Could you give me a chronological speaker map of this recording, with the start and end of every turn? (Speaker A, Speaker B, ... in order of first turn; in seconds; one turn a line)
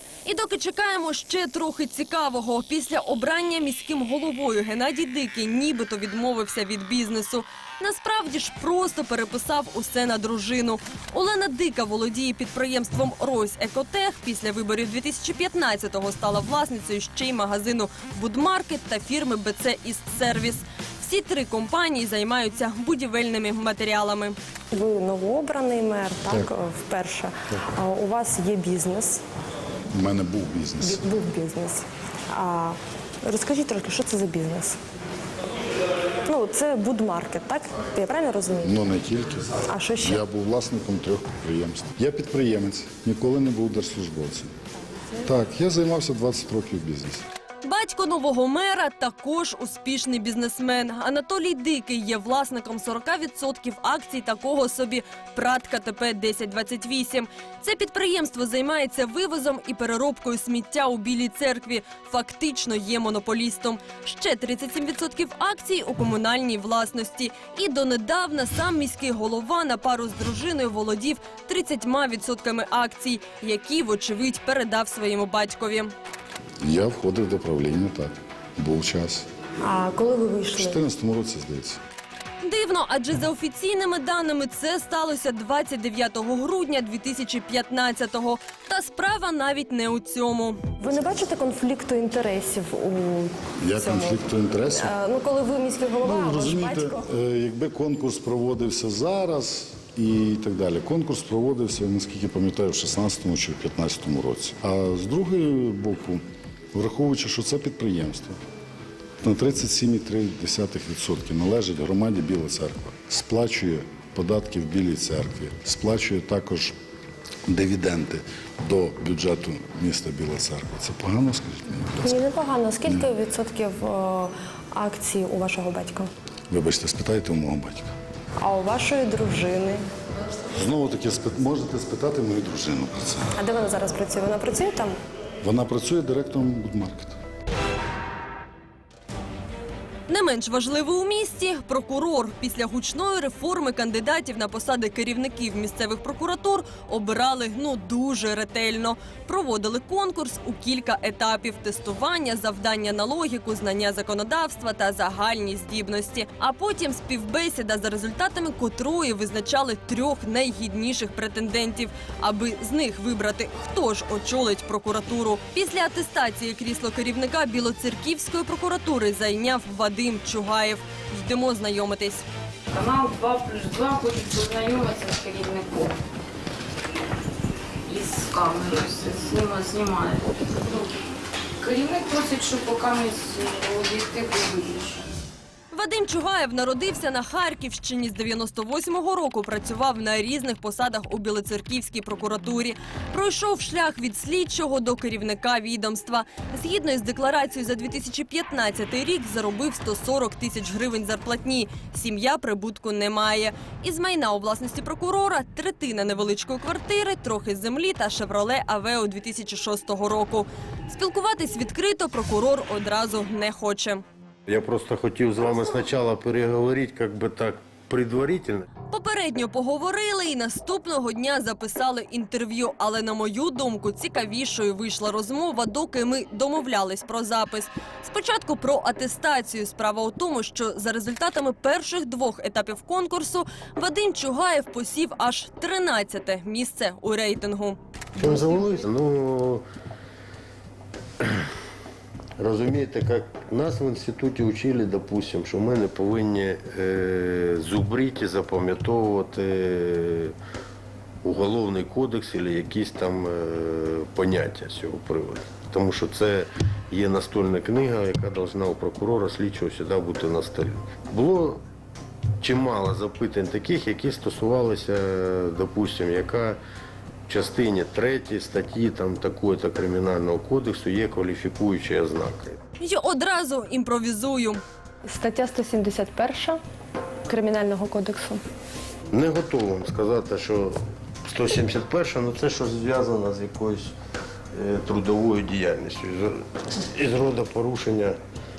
Speaker A: 0.2-24.4
Speaker B: 24.7-29.2
Speaker C: 29.9-31.1
Speaker B: 30.8-34.8
Speaker B: 36.2-38.8
Speaker C: 38.6-44.5
Speaker B: 39.7-40.2
Speaker C: 45.2-47.2
Speaker A: 47.6-75.9
Speaker C: 76.6-79.2
Speaker B: 79.6-80.8
Speaker C: 80.5-81.8
Speaker A: 82.4-90.6
Speaker B: 90.8-97.0
Speaker C: 93.6-94.9
Speaker C: 96.0-106.2
Speaker C: 106.7-108.4
Speaker C: 109.2-116.8
Speaker C: 117.5-122.2
Speaker B: 122.0-126.1
Speaker C: 122.8-123.1
Speaker C: 126.5-127.9
Speaker B: 128.4-129.8
Speaker C: 130.5-133.3
Speaker B: 133.3-134.9
Speaker C: 135.4-137.2
Speaker A: 140.1-172.2
Speaker D: 172.7-175.9
Speaker D: 177.9-180.9
Speaker D: 181.6-185.0
Speaker A: 185.7-214.0
Speaker E: 214.5-218.7
Speaker A: 218.9-237.8
Speaker E: 238.2-239.6
Speaker E: 241.2-241.5
Speaker E: 242.4-250.3
Speaker E: 251.2-261.6
Speaker E: 262.4-266.6
Speaker E: 267.3-272.6
Speaker A: 272.8-274.6
Speaker B: 275.1-276.6
Speaker B: 277.3-278.4
Speaker E: 279.1-283.9
Speaker E: 284.5-288.2